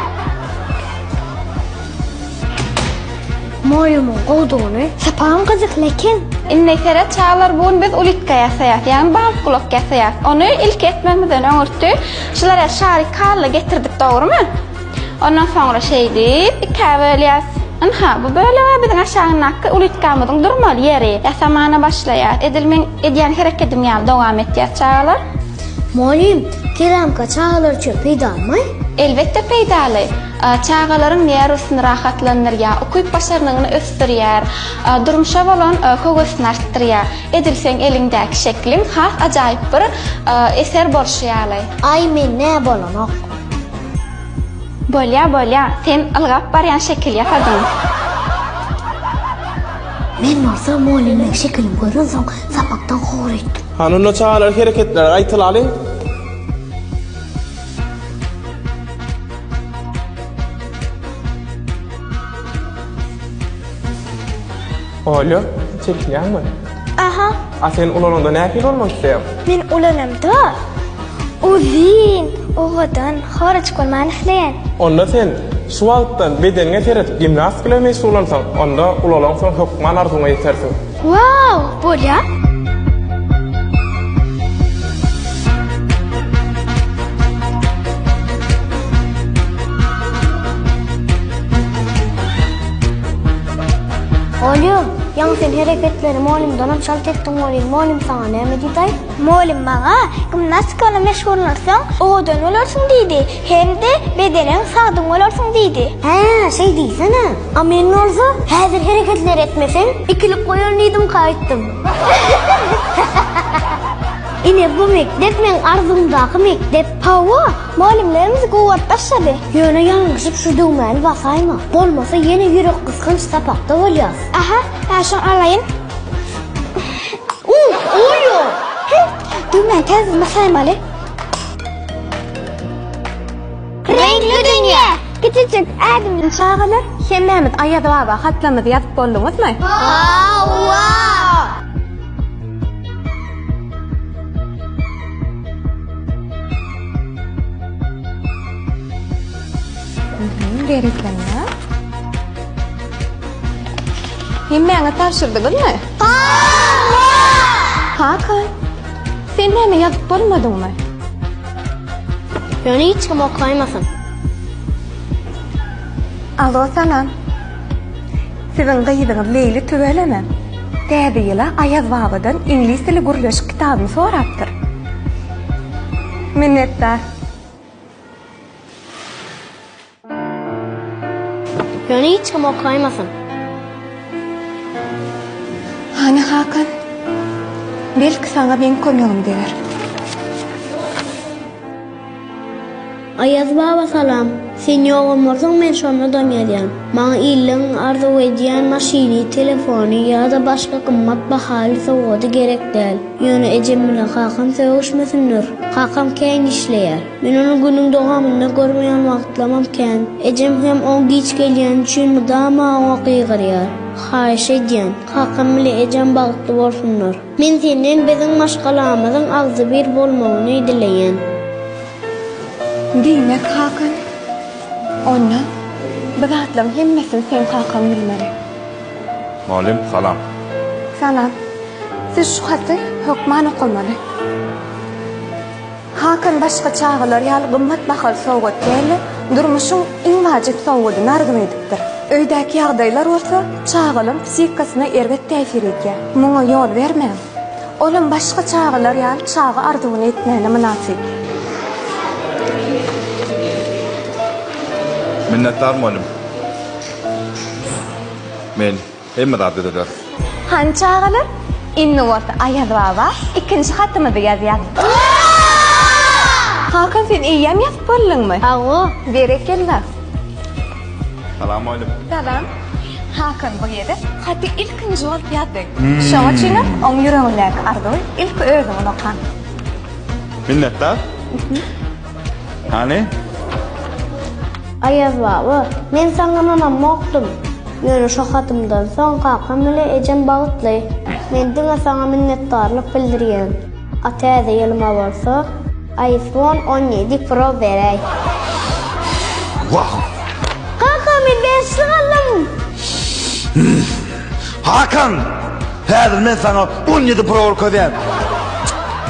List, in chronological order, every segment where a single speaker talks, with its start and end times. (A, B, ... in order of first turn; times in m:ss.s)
0:03.6-0:04.9 A
0:05.0-0:06.2 B
0:06.5-0:14.4 C
0:15.2-0:25.2 C
0:25.9-0:28.7 A
0:29.0-0:41.7 C
0:41.8-0:43.3 A
0:44.9-0:47.7 C
0:50.2-0:53.6 A
0:53.8-0:55.7 D
1:05.1-1:06.5 D
1:07.0-1:07.4 B
1:07.6-1:09.2 D
1:09.5-1:10.6 B
1:11.4-1:14.6 B
1:14.8-1:20.8 D
1:21.5-1:22.0 B
1:34.4-1:39.0 A
1:39.2-1:46.0 B
1:46.0-1:51.8 A
1:54.4-1:57.3 A
1:57.5-1:59.4 B
1:59.5-2:04.2 A
2:04.8-2:05.1 C
2:07.4-2:08.6 A
2:13.8-2:16.3 B
2:14.0-2:14.5 A
2:16.3-2:19.6 E
2:19.8-2:21.4 A
2:30.2-2:31.5 E
2:34.5-2:35.8 E
2:38.0-2:38.5 E
2:39.3-2:40.8 E
2:42.6-2:43.9 A
2:46.4-2:47.1 E
2:48.5-2:50.2 E
2:50.9-2:54.5 E
2:56.4-2:57.0 E
3:01.9-3:03.1 A
3:06.0-3:06.7 E
3:08.0-3:09.5 E
3:13.2-3:41.2 A
3:43.0-3:44.0 E
3:45.1-3:45.4 E
3:46.2-3:48.3 E
3:49.5-3:50.2 F
3:51.0-3:51.3 E
3:52.1-3:54.0 E
3:56.0-4:07.2 E
4:07.8-4:11.0 E
4:15.3-4:16.1 F
4:18.6-4:19.9 F
4:20.5-4:21.3 E
4:21.8-4:24.8 E
4:26.7-4:28.4 E
4:28.4-4:28.9 A
4:29.1-4:29.8 E
4:31.4-4:32.0 F
4:32.1-4:32.5 E
4:33.1-4:39.2 E
4:35.8-4:36.8 F
4:40.5-4:41.0 F
4:42.7-4:43.1 F
4:44.8-4:58.0 A
4:59.7-5:00.0 G
5:00.8-5:02.5 A
5:04.6-5:05.3 G
5:05.9-5:08.0 G